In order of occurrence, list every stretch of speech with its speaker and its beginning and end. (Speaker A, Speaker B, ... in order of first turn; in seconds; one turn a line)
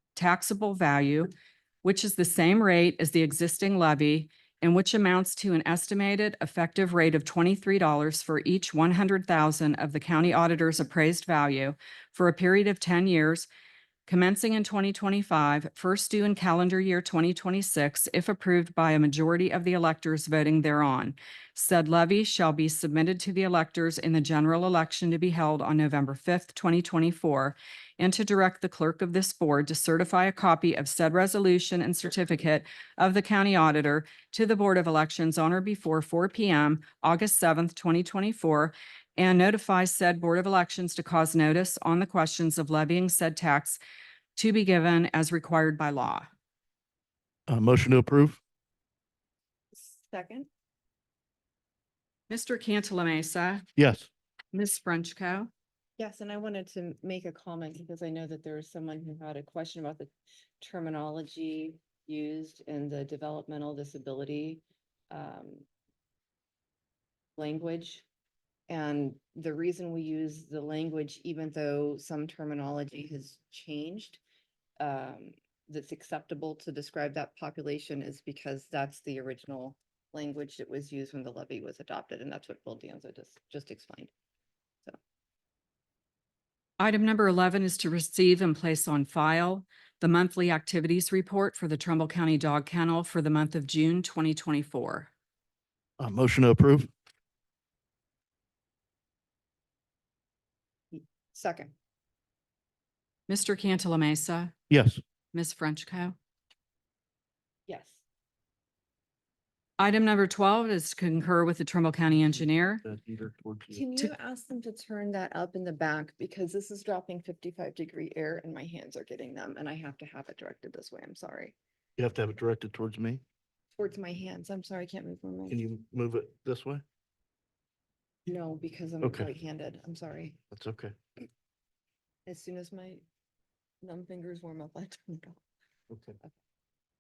Speaker A: 0.1-1.3
Speaker A: 1.8-13.5
Speaker A: 14.1-43.8
Speaker A: 44.4-46.3
Speaker B: 47.5-48.4
Speaker C: 49.7-50.5
Speaker A: 52.3-53.6
Speaker B: 53.8-54.1
Speaker A: 54.5-55.5
Speaker C: 56.0-65.6
Speaker C: 67.4-68.0
Speaker C: 68.7-74.2
Speaker C: 74.8-84.1
Speaker A: 86.8-95.1
Speaker B: 96.0-96.9
Speaker C: 100.9-101.7
Speaker A: 103.3-104.5
Speaker B: 104.7-105.0
Speaker A: 105.3-106.2
Speaker C: 107.7-108.0
Speaker A: 109.8-112.8
Speaker B: 112.8-114.1
Speaker C: 113.7-121.5
Speaker B: 122.0-123.2
Speaker C: 123.8-125.6
Speaker B: 125.5-126.8
Speaker C: 128.2-130.4
Speaker B: 129.0-129.3
Speaker B: 130.5-130.9
Speaker C: 132.2-133.0
Speaker C: 133.8-135.4
Speaker B: 135.9-136.2